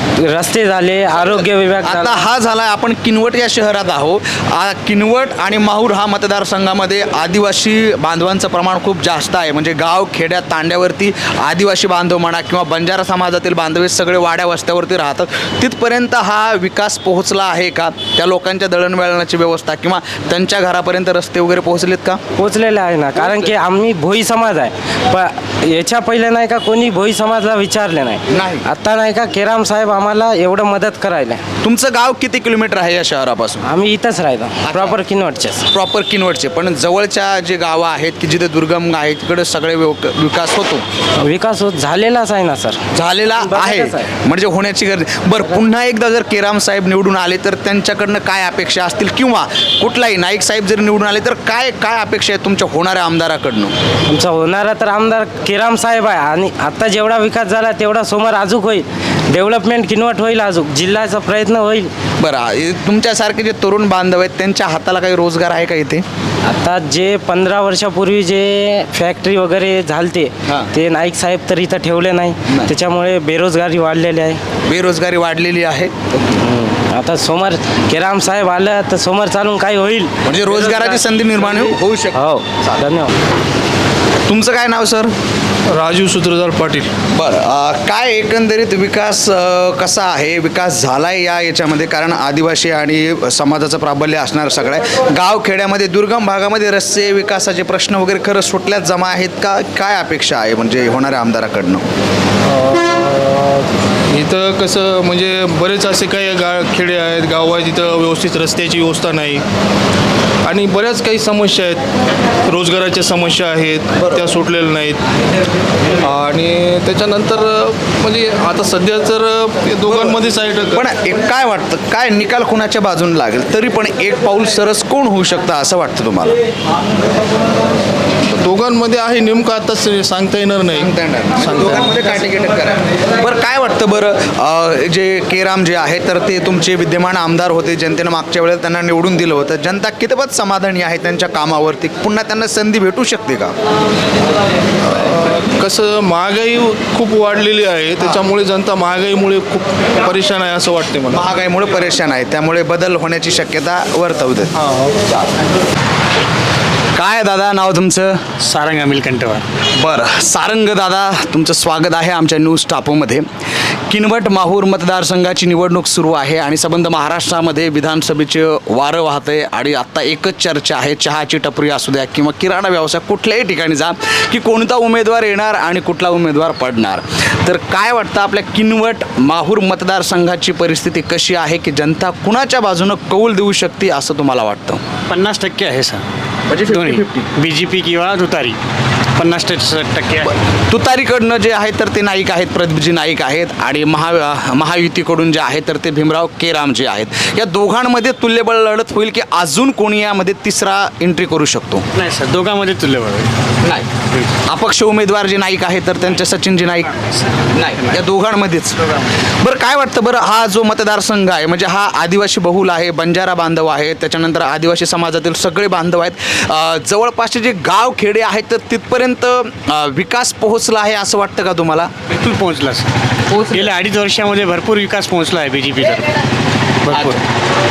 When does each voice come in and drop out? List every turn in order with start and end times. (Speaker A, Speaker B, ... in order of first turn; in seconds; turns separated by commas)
Speaker A: 0.2-2.2, Speaker B: 1.8-22.2, Speaker A: 22.4-31.4, Speaker B: 28.3-28.6, Speaker B: 31.6-33.6, Speaker A: 33.6-35.7, Speaker B: 34.6-35.0, Speaker B: 35.7-40.8, Speaker A: 41.2-42.8, Speaker B: 42.9-53.7, Speaker A: 43.3-44.1, Speaker A: 54.0-61.9, Speaker B: 62.2-66.0, Speaker A: 66.4-74.4, Speaker B: 74.7-76.4, Speaker A: 76.4-80.1, Speaker B: 80.2-82.8, Speaker A: 81.5-83.1, Speaker B: 84.3-85.1, Speaker C: 85.7-86.9, Speaker B: 87.1-101.8, Speaker C: 102.6-109.4, Speaker C: 110.4-111.8, Speaker C: 112.5-115.0, Speaker B: 114.0-114.3, Speaker C: 116.0-120.9, Speaker B: 119.8-126.4, Speaker C: 128.4-132.0, Speaker B: 130.7-143.5, Speaker C: 144.8-151.3, Speaker B: 148.0-148.3, Speaker B: 151.1-154.5, Speaker B: 156.9-158.2, Speaker D: 158.4-159.4, Speaker B: 159.8-163.2, Speaker B: 163.9-184.8, Speaker D: 185.1-186.0, Speaker B: 186.5-187.3, Speaker D: 186.6-188.6, Speaker D: 189.2-190.3, Speaker B: 190.7-201.8, Speaker D: 201.9-203.3, Speaker B: 203.6-203.9, Speaker B: 204.4-206.9, Speaker B: 207.5-208.9, Speaker B: 209.4-221.9, Speaker D: 222.1-222.9, Speaker B: 223.3-223.7, Speaker D: 223.5-226.1, Speaker D: 226.8-227.2, Speaker B: 226.9-227.2